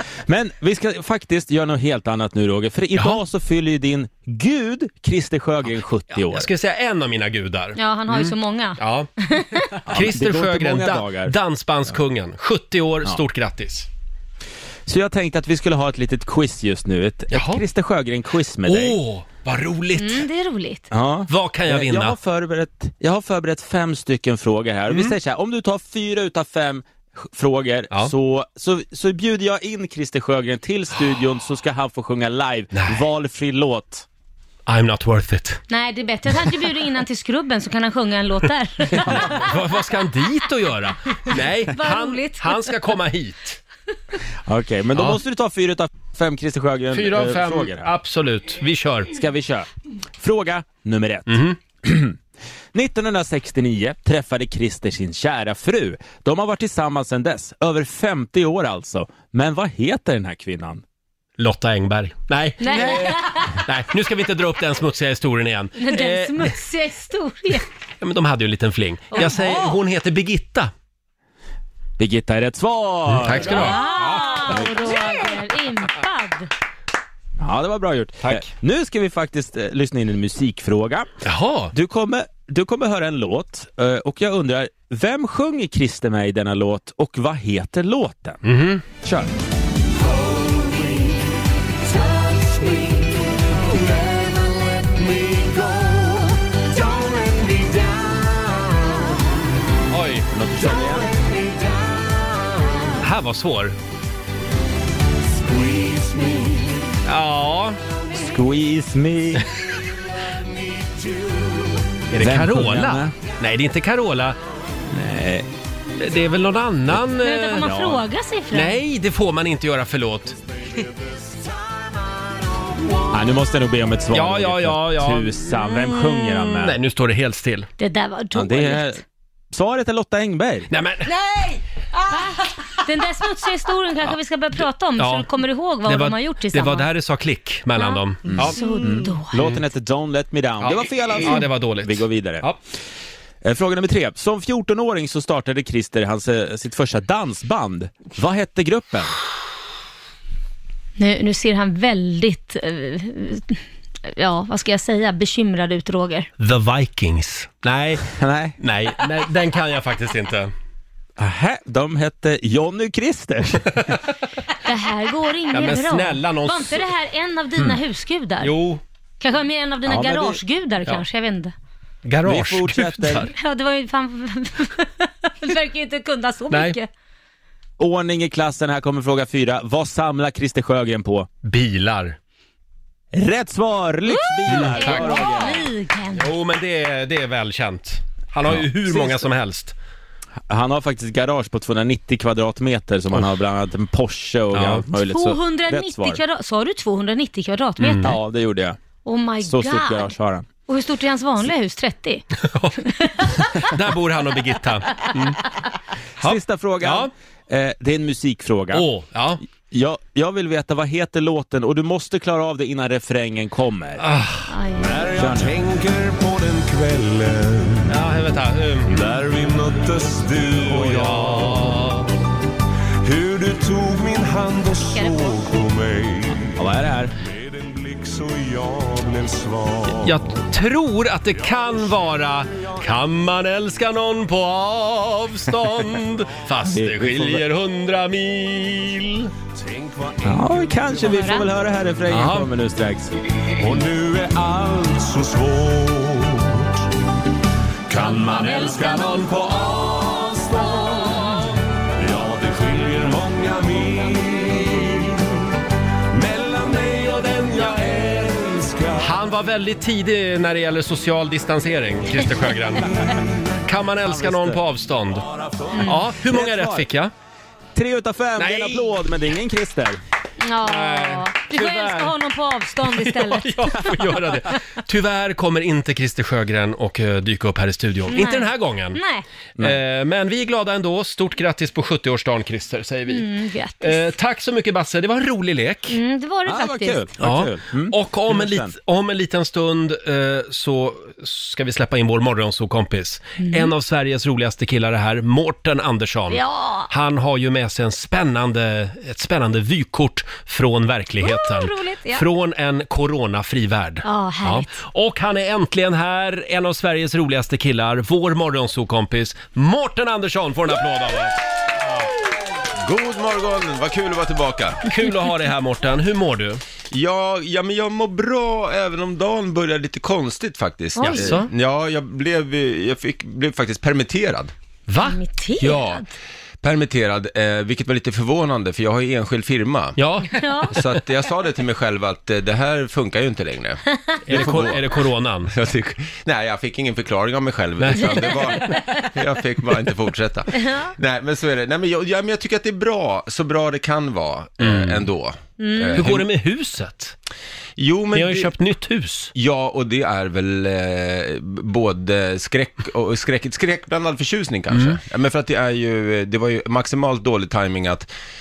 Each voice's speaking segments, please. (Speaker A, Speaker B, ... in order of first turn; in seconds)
Speaker A: 0.3-6.5, 9.9-11.3, 14.9-19.0, 20.9-34.0, 44.5-47.9, 49.1-52.2, 52.7-60.8, 72.0-73.9, 74.5-74.9, 77.4-81.1, 81.7-88.4, 89.0-89.3, 100.3-101.2, 108.1-109.5, 112.2-113.2, 114.9-115.5, 117.6-118.0, 123.1-126.8, 128.3-129.0, 129.5-130.7, 138.2-142.5, 143.4-149.1, 158.1-158.6, 161.2-163.8, 169.9-170.4, 172.2-173.3, 177.8-181.3, 183.1-185.7, 190.5-196.2, 198.0-198.8, 199.4-200.5, 206.2-208.9, 209.7-214.0, 215.2-215.6, 226.6-227.2, 236.7-237.4, 240.2-243.2, 264.0-264.6, 266.2-266.9, 267.8-270.0, 286.5-288.7
Speaker B: 6.1-9.1, 9.9-13.9, 17.3-17.6, 18.6-20.3, 21.3-22.2, 24.9-25.2, 32.7-33.0, 34.7-35.6, 39.0-43.6, 46.9-49.1, 51.3-51.6, 61.4-66.5, 68.0-70.7, 73.1-74.6, 81.2-81.7, 88.4-88.8, 99.9-100.3, 103.0-103.8, 107.0-107.8, 112.1-114.4, 116.0-117.7, 118.5-120.4, 124.1-127.7, 130.7-131.1, 135.0-135.3, 135.8-138.6, 139.4-139.6, 140.7-142.6, 156.4-160.5, 165.5-166.8, 168.4-168.8, 172.1-173.3, 176.5-176.8, 181.4-182.2, 184.5-185.5, 186.2-189.8, 194.5-194.9, 197.8-198.2, 202.4-202.8, 203.5-205.4, 206.2-207.1, 208.7-209.4, 214.0-214.5, 217.9-219.0, 220.7-222.1, 230.0-239.3, 242.1-242.5, 248.1-249.3, 259.0-262.9, 263.7-265.2, 265.8-267.1, 268.4-268.9, 270.6-272.1, 272.9-279.0, 279.6-283.3, 283.8-286.0, 287.2-312.1, 314.9-316.6, 321.0-321.5, 324.9-325.2, 330.0-330.4, 334.3-335.5, 337.8-338.7, 344.6-345.1, 346.0-347.1, 348.1-349.3, 354.7-355.0
Speaker C: 7.8-9.7, 20.0-20.9, 35.7-39.4, 41.7-42.7, 62.6-63.6, 65.8-67.7, 69.1-69.7, 73.4-76.5, 117.2-118.8, 127.8-129.0, 132.1-136.9, 137.8-139.4, 151.0-156.3, 164.7-168.5, 169.2-171.5, 173.3-176.9, 184.1-186.3, 195.0-198.2, 199.1-200.1, 200.7-202.2, 202.9-203.2, 214.5-215.0, 224.9-225.4, 241.0-241.5, 265.7-266.0, 270.4-273.8, 278.1-279.2, 283.1-284.1, 285.9-287.1, 293.4-293.7, 296.3-296.9, 301.2-302.2, 304.0-304.7, 321.0-321.4, 325.0-326.0, 330.3-330.8, 338.0-339.1, 340.5-340.9, 345.6-346.1
Speaker D: 90.0-91.2, 92.0-99.1, 100.6-102.9, 105.3-106.8, 110.8-111.7, 214.8-218.0, 218.9-221.9, 223.0-226.6, 227.2-230.4, 231.3-232.8, 239.5-241.4, 243.6-246.8, 247.9-251.4, 252.0-255.3, 256.1-259.1, 265.2-265.8
Speaker E: 312.8-314.8, 316.9-324.5, 325.6-326.0, 326.6-330.0, 330.7-334.9, 335.5-346.3, 347.8-348.5, 349.3-358.1